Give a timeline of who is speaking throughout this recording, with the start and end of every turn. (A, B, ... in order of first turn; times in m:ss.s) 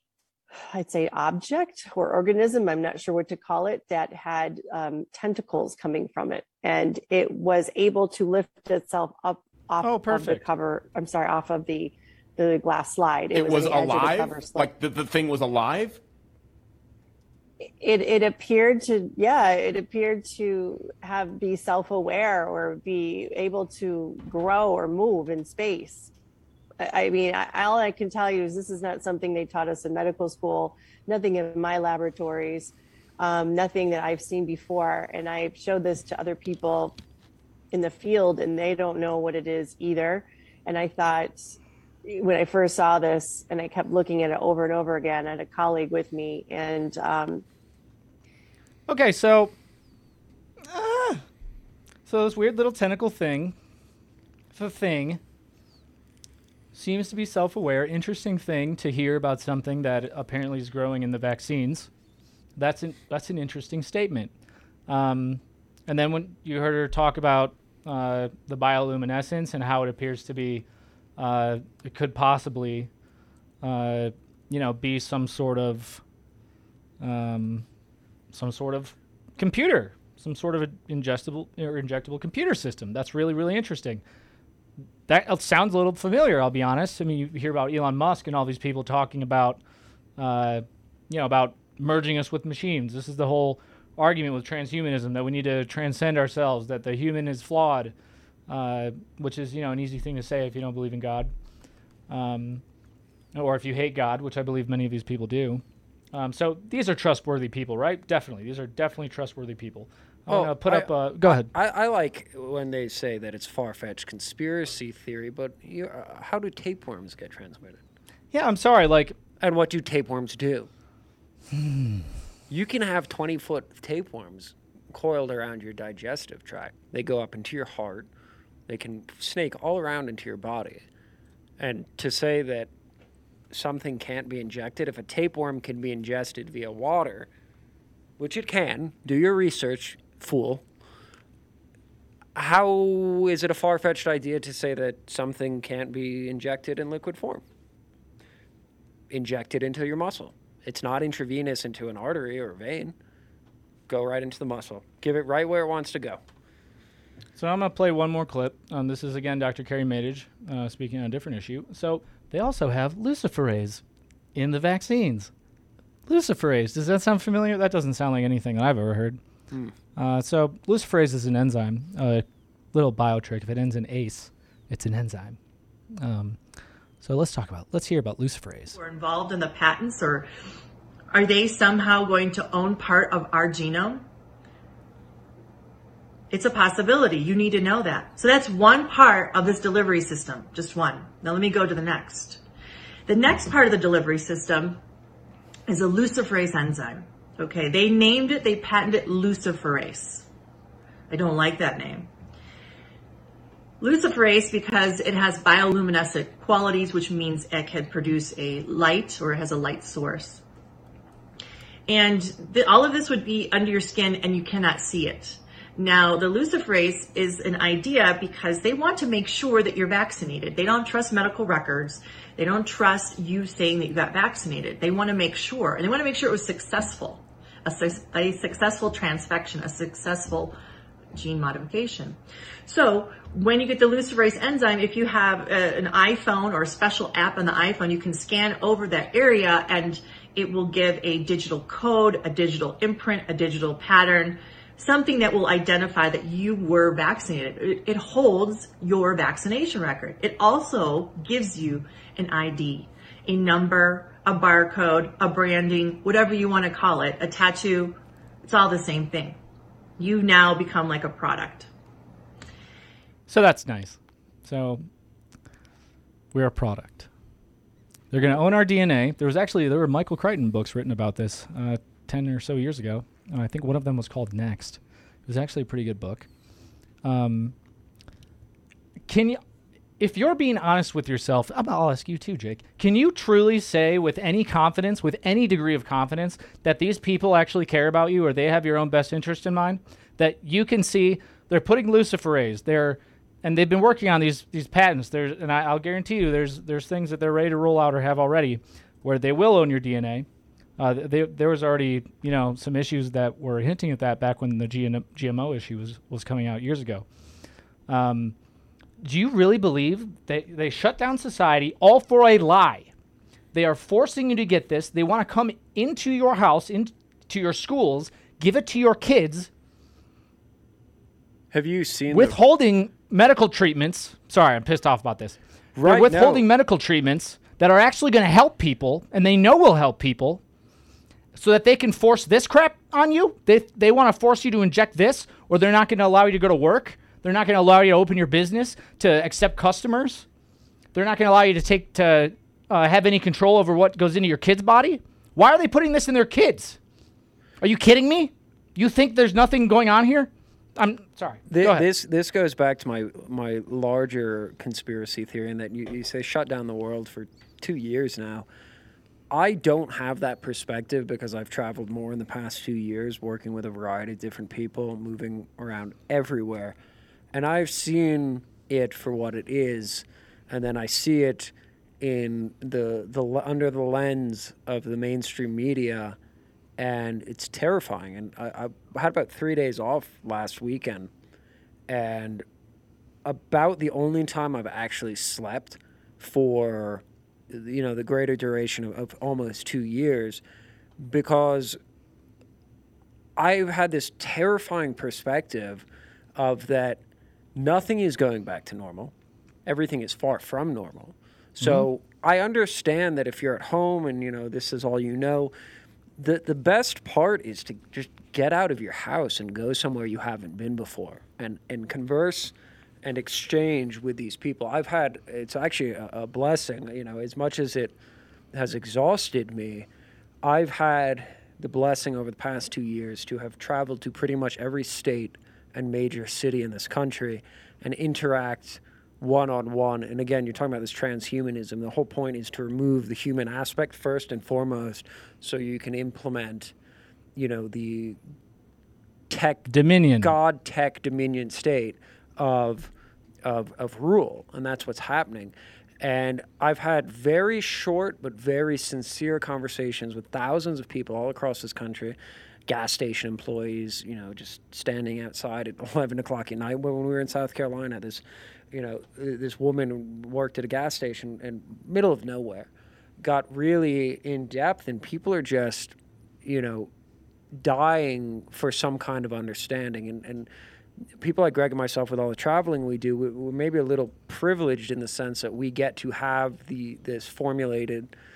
0:00.7-0:14.7 A
0:09.8-0:10.5 B
0:13.3-0:16.0 C
0:17.8-0:26.1 A
0:26.8-0:37.0 A
0:37.7-0:41.4 A
0:42.1-0:47.4 A
0:48.9-0:49.5 B
0:50.7-0:51.2 B
0:52.1-0:53.6 B
0:54.5-0:55.2 B
0:56.7-1:01.9 B
1:02.6-1:04.3 B
1:04.9-1:10.6 B
1:11.2-1:12.9 B
1:13.6-1:16.0 B
1:17.0-1:17.6 B
1:18.3-1:24.0 B
1:25.1-1:29.6 B
1:30.2-1:37.9 B
1:38.5-1:41.3 B
1:42.1-1:42.6 B
1:43.3-1:45.6 B
1:46.1-1:51.5 B
1:50.3-1:57.8 D
1:58.3-1:59.2 B
1:59.4-2:00.7 D
2:01.6-2:02.0 B
2:02.5-2:08.1 D
2:08.7-2:10.9 D
2:11.6-2:12.7 D
2:13.5-2:17.3 D
2:18.2-2:20.6 D
2:22.4-2:27.4 D
2:29.1-2:32.9 D
2:33.9-2:36.2 D
2:37.4-2:43.8 B
2:44.4-2:45.3 B
2:46.1-2:49.2 B
2:50.0-2:55.4 B
2:56.0-2:56.4 B
2:57.0-2:58.8 B
2:58.8-3:00.2 E
2:58.9-3:00.2 A
3:01.1-3:04.0 E
3:01.2-3:04.0 A
3:06.3-3:12.4 A
3:06.3-3:12.4 E
3:13.1-3:14.8 E
3:13.1-3:14.8 A
3:15.7-3:20.2 A
3:15.7-3:20.2 E
3:21.1-3:22.0 A
3:21.1-3:22.1 E
3:23.8-3:30.3 A
3:23.8-3:30.4 E
3:31.9-3:50.5 A
3:31.9-3:50.5 E
3:51.2-3:52.1 A
3:51.2-3:52.2 E
3:52.7-4:18.0 A
3:52.7-4:19.4 E
4:18.5-4:19.3 A
4:20.0-4:21.7 A
4:20.0-4:21.7 E
4:23.3-4:24.9 B
4:26.3-4:27.1 B
4:28.1-4:36.3 B
4:37.0-4:37.5 B
4:39.1-4:39.4 B
4:40.0-5:00.3 B
5:00.8-5:07.0 B
5:07.9-5:08.3 B
5:09.0-5:12.9 B
5:13.5-5:19.5 B
5:21.5-5:22.4 D
5:22.1-5:30.4 B
5:25.8-5:26.4 D
5:31.4-5:40.3 B
5:40.9-5:46.8 B
5:47.6-5:51.9 B
5:51.5-5:58.5 D
5:59.3-6:06.8 D
6:07.3-6:16.2 D
6:16.8-6:21.1 D
6:21.9-6:22.4 D
6:23.2-6:30.4 D
6:31.0-6:31.8 D
6:33.4-6:35.8 D
6:36.4-6:37.0 D
6:37.6-6:39.1 D
6:39.7-6:45.5 D
6:46.2-6:52.5 D
6:53.0-6:58.0 D
6:58.5-6:59.9 D
7:00.4-7:16.7 D
7:17.4-7:18.2 D
7:19.3-7:19.7 D
7:19.7-7:20.4 B
7:20.2-7:22.9 D
7:23.4-7:42.7 D
7:43.2-7:46.9 D
7:47.5-7:50.5 D
7:51.2-7:58.1 D